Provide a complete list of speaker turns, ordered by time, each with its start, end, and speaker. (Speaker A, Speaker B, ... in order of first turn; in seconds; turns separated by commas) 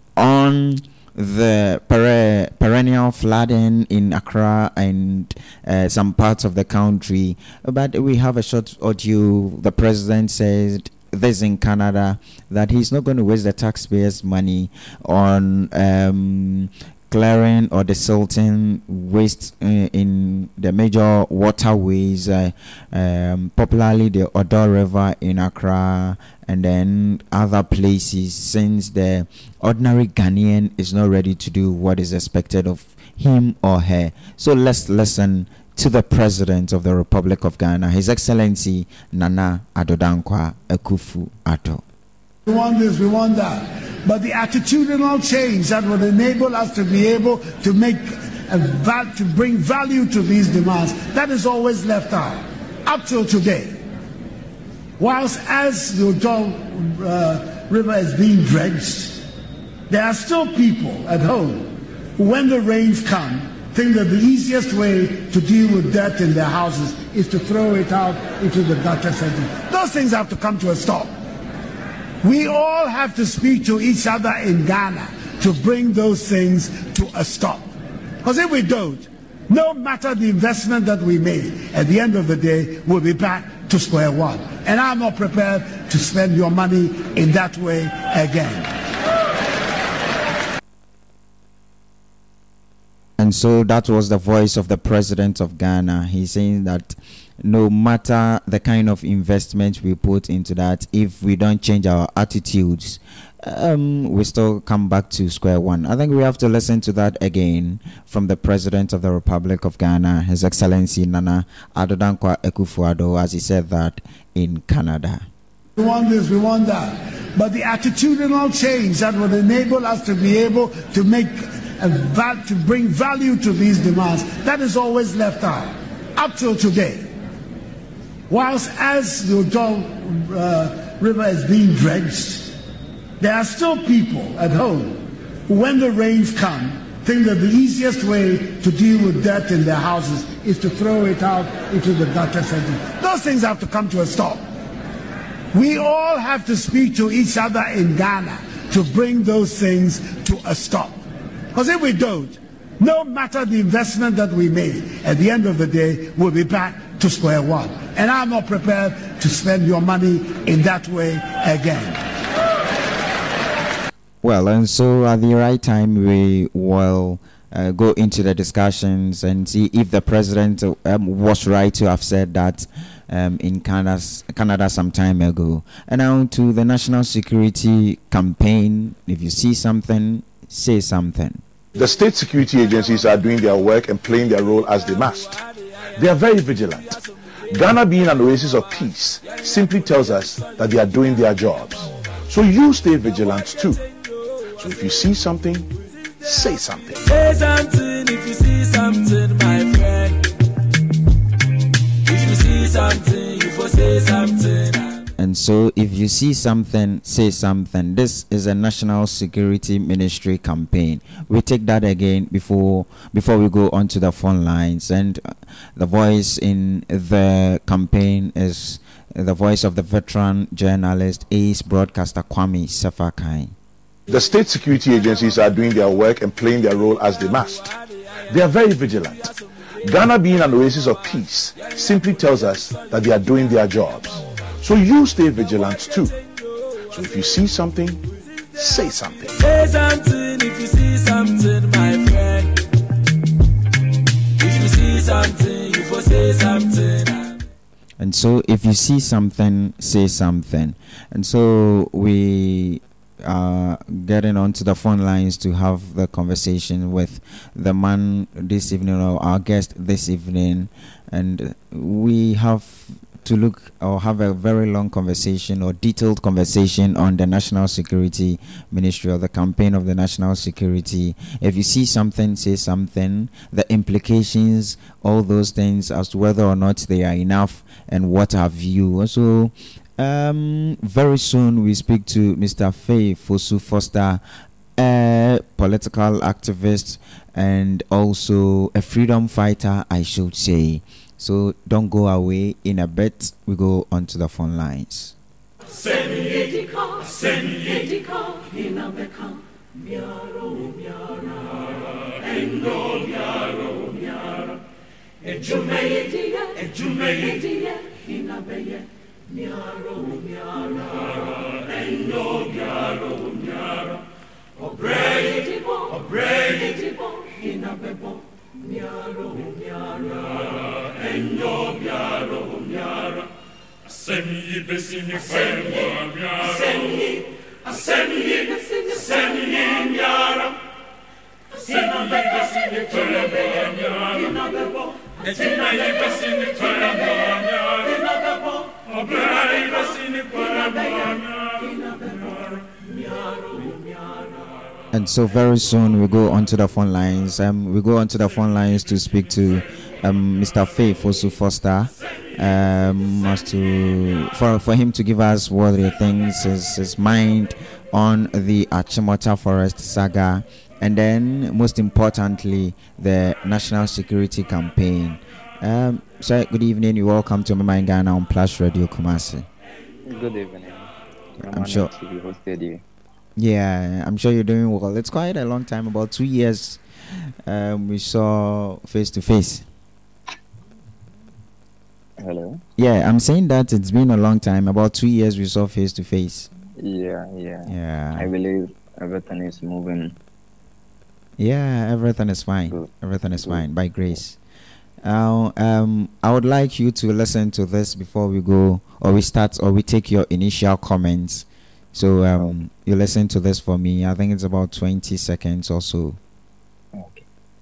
Speaker A: 0.2-41.8, Speaker B: 42.5-53.8, Speaker B: 55.0-59.3, Speaker B: 59.9-71.1, Speaker B: 72.2-77.7, Speaker B: 78.2-88.7, Speaker A: 93.2-115.2, Speaker B: 115.8-127.1, Speaker B: 128.3-132.6, Speaker B: 133.2-144.4, Speaker B: 145.5-151.0, Speaker B: 151.5-162.0, Speaker A: 164.2-181.4, Speaker C: 181.8-185.4, Speaker C: 186.0-193.8, Speaker C: 194.6-195.7, Speaker C: 196.2-197.0, Speaker D: 197.0-200.3, Speaker D: 202.1-205.0, Speaker A: 205.2-223.5, Speaker C: 224.1-227.7, Speaker C: 228.3-236.2, Speaker C: 236.9-238.0, Speaker C: 238.6-239.3, Speaker D: 239.4-242.6, Speaker D: 244.4-247.4, Speaker A: 248.0-284.2, Speaker A: 284.8-295.1, Speaker A: 344.9-369.5, Speaker E: 370.1-370.9, Speaker A: 371.4-371.9, Speaker E: 371.4-372.8, Speaker A: 373.4-379.6, Speaker E: 382.2-382.6, Speaker A: 382.8-386.5, Speaker E: 386.8-390.2, Speaker A: 387.7-388.3, Speaker A: 391.4-394.4, Speaker A: 395.0-406.2, Speaker E: 406.9-407.2